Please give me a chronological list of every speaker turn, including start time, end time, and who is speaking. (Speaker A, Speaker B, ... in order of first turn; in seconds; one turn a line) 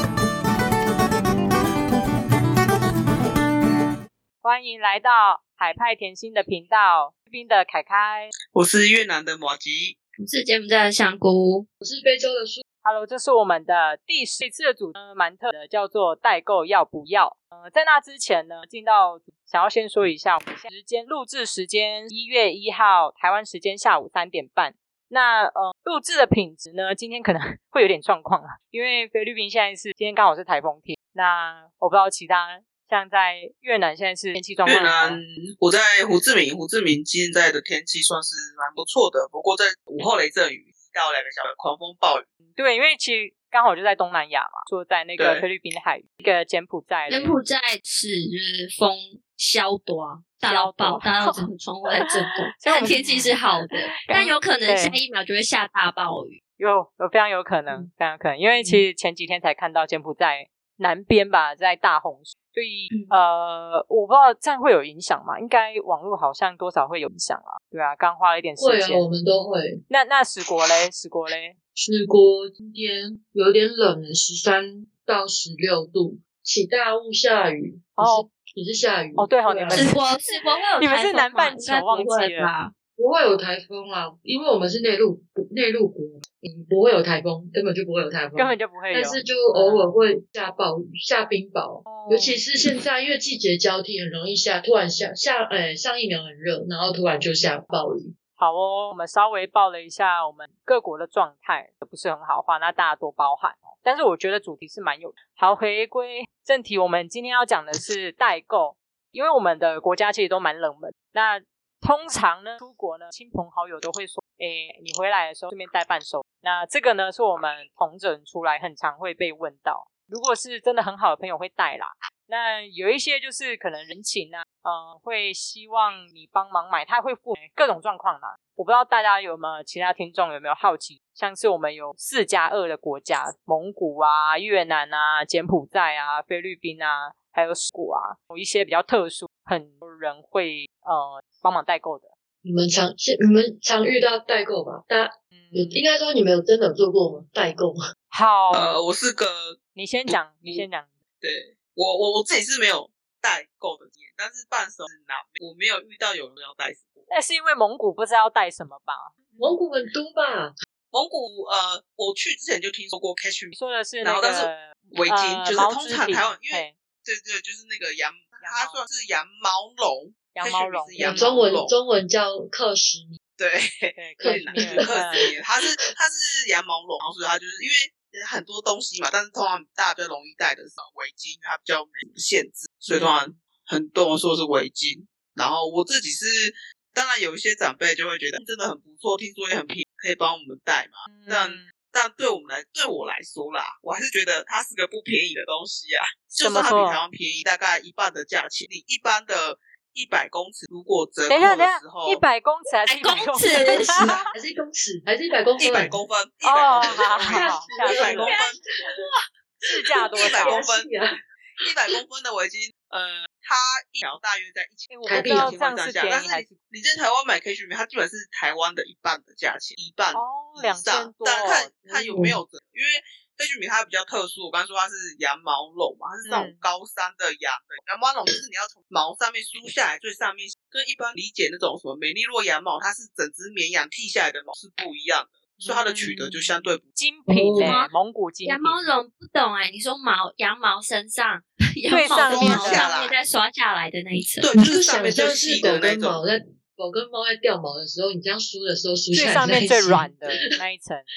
Speaker A: 4.4-8.3
Speaker B: 8.5-9.9
Speaker C: 10.2-11.7
Speaker D: 11.8-12.6
Speaker A: 12.8-35.2
Speaker B: 34.6-42.3
Speaker A: 42.5-47.4
Speaker B: 45.2-45.4
Speaker C: 47.1-56.4
Speaker A: 50.4-53.3
Speaker A: 54.0-54.9
Speaker A: 56.6-69.1
Speaker D: 68.6-69.8
Speaker A: 69.9-71.5
Speaker D: 71.7-80.0
Speaker A: 78.0-78.3
Speaker A: 79.2-80.1
Speaker C: 79.7-82.7
Speaker A: 80.8-82.5
Speaker D: 83.0-98.1
Speaker A: 88.3-89.9
Speaker A: 91.8-92.4
Speaker A: 98.4-142.1
Speaker D: 142.4-147.8
Speaker A: 145.3-145.8
Speaker A: 148.1-148.8
Speaker B: 148.5-149.6
Speaker A: 149.7-150.9
Speaker B: 150.1-150.6
Speaker B: 151.2-157.1
Speaker A: 157.1-159.6
Speaker D: 159.4-160.5
Speaker B: 160.9-171.7
Speaker A: 163.5-166.7
Speaker A: 168.4-168.8
Speaker A: 170.3-171.3
Speaker D: 171.0-173.1
Speaker B: 173.4-202.2
Speaker A: 173.9-175.2
Speaker D: 174.2-175.0
Speaker A: 182.9-183.3
Speaker A: 191.1-191.7
Speaker A: 196.4-197.0
Speaker A: 201.3-204.3
Speaker C: 202.9-204.1
Speaker D: 203.9-205.9
Speaker B: 205.6-208.6
Speaker A: 206.4-208.3
Speaker D: 206.7-209.0
Speaker C: 207.6-208.4
Speaker A: 209.7-210.6
Speaker D: 209.9-211.1
Speaker B: 210.2-210.9
Speaker B: 211.6-236.8
Speaker A: 214.9-216.5
Speaker D: 215.1-215.6
Speaker A: 220.1-221.7
Speaker D: 221.9-222.4
Speaker A: 226.2-226.6
Speaker A: 235.6-238.9
Speaker D: 237.3-237.8
Speaker C: 237.6-237.9
Speaker C: 238.4-244.5
Speaker A: 241.9-242.9
Speaker B: 242.2-243.1
Speaker B: 244.4-246.2
Speaker D: 244.6-250.5
Speaker A: 249.1-251.1